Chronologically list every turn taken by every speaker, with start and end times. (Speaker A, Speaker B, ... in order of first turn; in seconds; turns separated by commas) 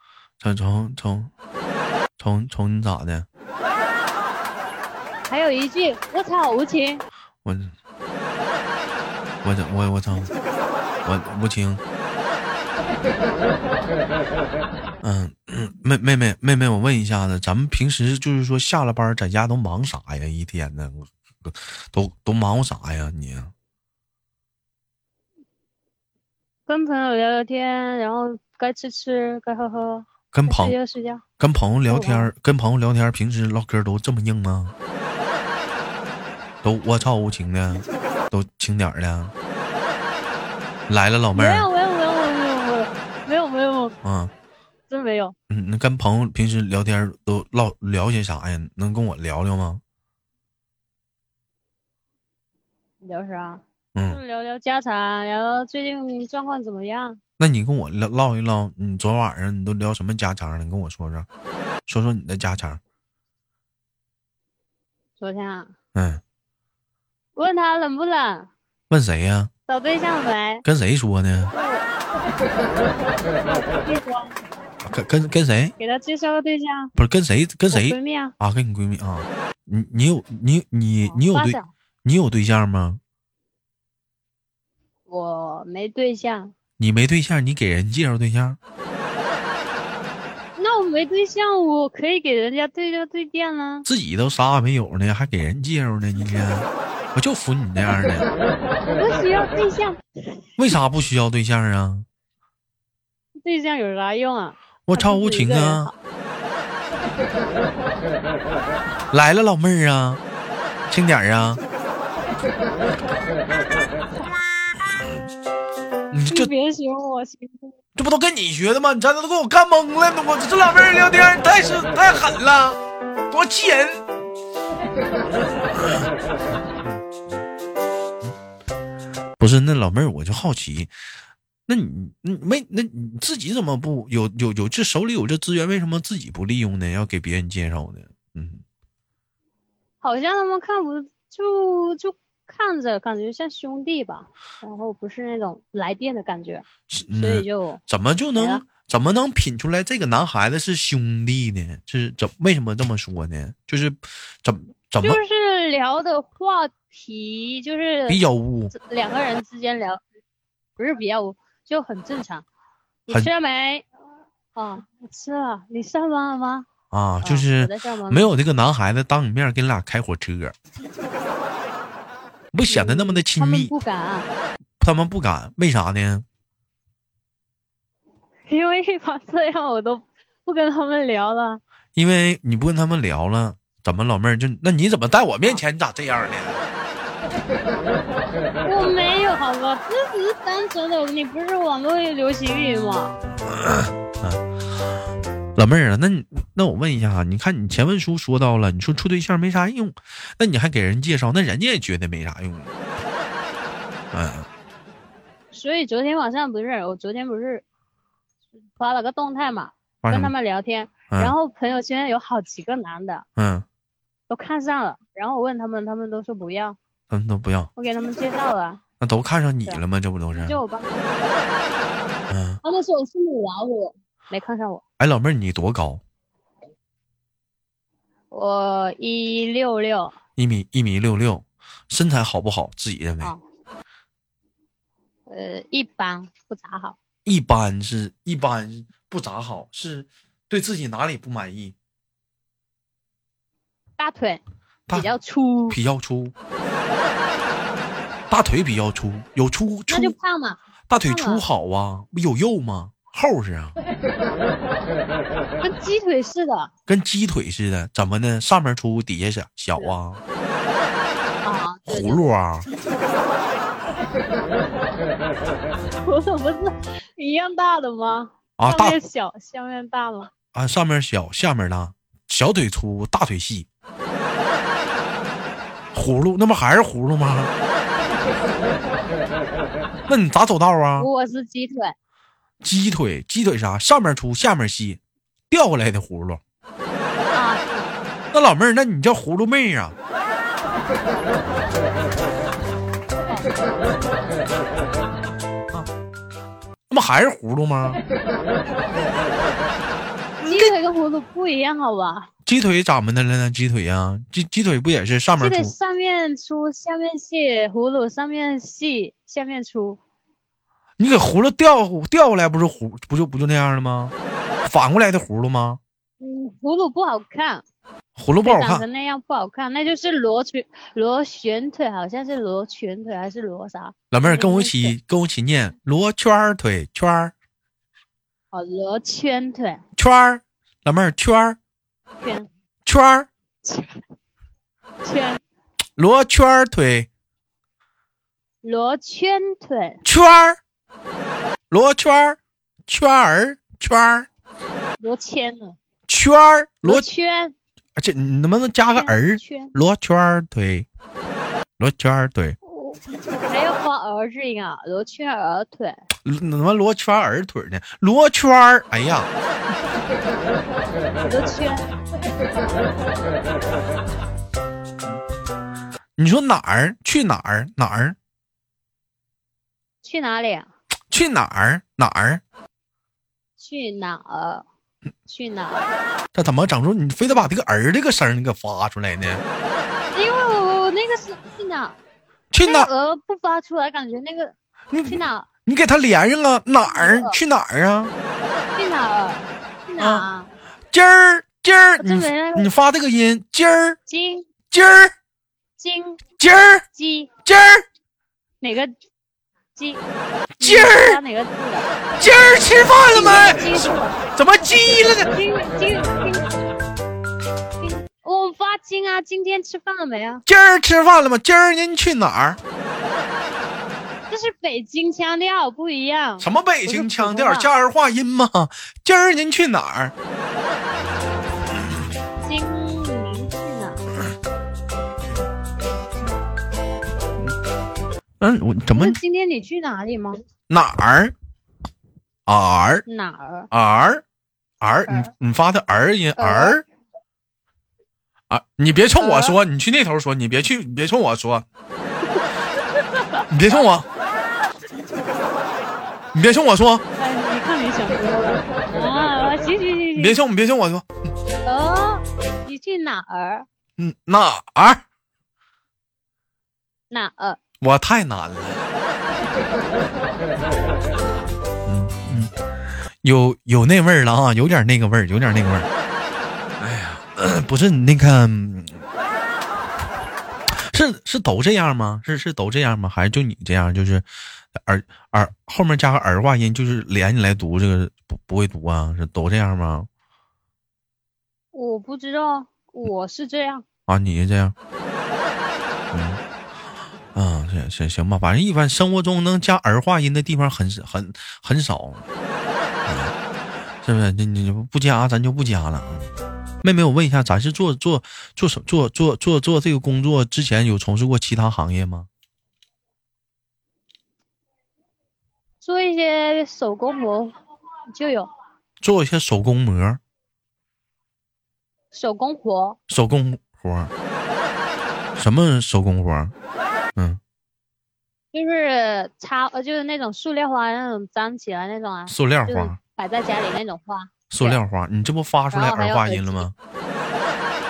Speaker A: 0.4-1.3, Speaker A: 2.2-3.2, Speaker B: 5.3-7.0, Speaker A: 7.4-7.7, Speaker A: 9.4-10.3, Speaker A: 11.0-11.8, Speaker A: 15.0-23.5, Speaker B: 26.7-31.2, Speaker A: 30.3-30.8, Speaker A: 31.4-34.7, Speaker B: 31.9-32.3, Speaker A: 36.6-39.3, Speaker A: 40.9-41.7, Speaker B: 41.3-44.0, Speaker A: 44.0-44.3, Speaker B: 44.9-45.3, Speaker A: 45.5-49.8, Speaker B: 53.0-57.2, Speaker A: 53.9-54.2, Speaker A: 57.4-61.3, Speaker A: 61.9-62.8, Speaker B: 65.2-65.7, Speaker A: 65.9-66.2, Speaker B: 67.3-68.5, Speaker A: 68.9-69.5, Speaker B: 69.7-70.6, Speaker A: 70.6-71.5, Speaker B: 71.5-71.8, Speaker B: 73.4-74.4, Speaker A: 74.8-75.7, Speaker B: 75.8-76.9, Speaker A: 76.9-83.0, Speaker B: 77.7-78.3, Speaker B: 81.0-81.7, Speaker B: 85.1-86.5, Speaker A: 86.8-88.6, Speaker B: 90.5-93.9, Speaker A: 93.8-98.3, Speaker B: 98.8-100.5, Speaker A: 100.6-102.0, Speaker B: 103.4-105.9, Speaker A: 104.9-105.9, Speaker A: 109.1-110.2, Speaker A: 110.9-111.6, Speaker A: 116.1-116.5, Speaker B: 116.3-117.7, Speaker A: 118.0-124.0, Speaker A: 125.4-126.1, Speaker A: 126.7-127.4, Speaker A: 129.4-130.9, Speaker A: 131.7-138.6, Speaker B: 140.0-147.8, Speaker A: 146.9-155.2, Speaker B: 148.3-148.6, Speaker B: 155.0-158.2, Speaker A: 158.1-158.7, Speaker B: 158.7-160.0, Speaker B: 160.8-162.4, Speaker B: 163.1-163.8, Speaker B: 164.6-166.7, Speaker A: 166.9-170.5, Speaker B: 167.2-168.3, Speaker A: 172.5-173.7, Speaker B: 172.7-174.3, Speaker A: 174.8-176.2, Speaker B: 178.5-181.6, Speaker A: 181.9-186.7, Speaker B: 188.6-193.2, Speaker A: 193.4-194.4, Speaker A: 195.6-202.7, Speaker A: 204.1-204.5, Speaker B: 205.5-207.6, Speaker B: 208.8-213.2, Speaker A: 210.0-210.3, Speaker A: 211.1-211.3, Speaker A: 213.4-213.7, Speaker B: 214.3-216.8, Speaker A: 217.1-217.7, Speaker B: 217.8-218.8, Speaker A: 219.0-220.6, Speaker B: 220.3-221.4, Speaker A: 222.3-222.6, Speaker B: 222.6-224.8, Speaker A: 225.0-226.0, Speaker B: 228.3-230.1, Speaker A: 230.4-233.3, Speaker B: 235.3-237.0, Speaker A: 237.2-241.7, Speaker B: 244.0-245.8, Speaker A: 245.7-246.3, Speaker A: 248.3-250.1, Speaker B: 249.9-251.4, Speaker A: 250.9-253.8, Speaker B: 255.6-256.7, Speaker A: 256.9-260.2, Speaker B: 261.4-262.2, Speaker A: 261.9-262.7, Speaker B: 265.9-270.3, Speaker A: 268.6-269.0, Speaker A: 270.5-273.7, Speaker A: 275.9-277.5, Speaker A: 280.1-281.1, Speaker B: 281.0-281.9, Speaker A: 282.6-286.4, Speaker B: 287.3-287.9, Speaker A: 288.3-289.9, Speaker A: 296.9-298.0, Speaker A: 300.4-300.7, Speaker B: 300.4-302.3, Speaker A: 302.4-305.7, Speaker B: 305.4-310.0, Speaker A: 311.0-314.1, Speaker A: 314.6-315.8, Speaker B: 316.2-317.6, Speaker A: 318.1-318.9, Speaker B: 318.4-324.9, Speaker A: 324.1-327.3, Speaker B: 328.5-329.8, Speaker A: 329.9-331.6, Speaker B: 332.2-332.5, Speaker A: 332.9-333.3, Speaker B: 333.6-334.0, Speaker B: 335.0-335.4, Speaker A: 336.0-337.1, Speaker B: 338.6-340.0, Speaker A: 340.0-340.6, Speaker A: 341.7-344.3, Speaker B: 345.0-345.8, Speaker A: 346.1-347.0, Speaker B: 346.8-347.5, Speaker A: 348.0-350.9, Speaker B: 348.9-349.7, Speaker A: 351.8-352.6, Speaker B: 352.6-356.0, Speaker A: 356.2-359.3, Speaker B: 361.2-361.9, Speaker A: 366.2-368.2, Speaker B: 370.0-370.7, Speaker A: 371.1-372.4, Speaker B: 373.6-374.6, Speaker B: 375.2-375.9, Speaker A: 376.3-379.4, Speaker B: 380.1-382.0, Speaker A: 382.5-382.9, Speaker B: 382.6-384.5, Speaker A: 384.9-388.1, Speaker B: 385.1-385.5, Speaker B: 386.9-387.4, Speaker B: 388.8-390.5, Speaker A: 390.0-390.3, Speaker A: 390.9-394.0, Speaker B: 392.0-392.7, Speaker B: 394.1-394.5, Speaker A: 394.7-395.1, Speaker B: 395.8-396.2, Speaker A: 396.4-396.8, Speaker B: 396.9-397.3, Speaker A: 397.4-397.9, Speaker B: 398.6-398.9, Speaker B: 399.7-400.0, Speaker B: 400.6-402.0, Speaker A: 400.6-401.2, Speaker A: 402.1-405.3, Speaker B: 403.0-404.2, Speaker B: 405.2-406.6, Speaker B: 407.8-410.4, Speaker A: 410.4-412.6, Speaker B: 414.3-417.7, Speaker A: 416.4-420.1, Speaker B: 422.4-424.0, Speaker A: 428.4-429.2, Speaker B: 428.9-430.4, Speaker A: 430.7-431.3, Speaker A: 432.5-433.0, Speaker B: 433.1-433.7, Speaker A: 433.7-434.2, Speaker A: 434.8-436.8, Speaker B: 436.4-436.8, Speaker A: 438.5-441.6, Speaker B: 439.1-439.6, Speaker B: 442.3-443.8, Speaker A: 443.5-444.1, Speaker A: 446.3-447.1, Speaker B: 447.2-450.4, Speaker A: 450.1-451.0, Speaker B: 451.6-453.7, Speaker A: 454.0-455.0, Speaker B: 457.1-457.6, Speaker A: 457.8-458.8, Speaker A: 461.8-462.5, Speaker A: 463.2-465.9, Speaker A: 466.8-469.0, Speaker A: 470.8-480.1, Speaker B: 481.7-483.8, Speaker A: 484.1-484.7, Speaker A: 486.1-486.4, Speaker A: 487.3-492.2, Speaker A: 493.1-493.3, Speaker A: 494.0-496.3, Speaker A: 496.8-502.3, Speaker B: 505.8-507.6, Speaker B: 508.1-508.5, Speaker A: 509.0-510.2, Speaker B: 512.1-513.0, Speaker A: 513.1-514.1, Speaker A: 515.4-516.5, Speaker B: 518.5-524.8, Speaker A: 522.3-523.0, Speaker A: 524.5-526.7, Speaker B: 525.7-526.7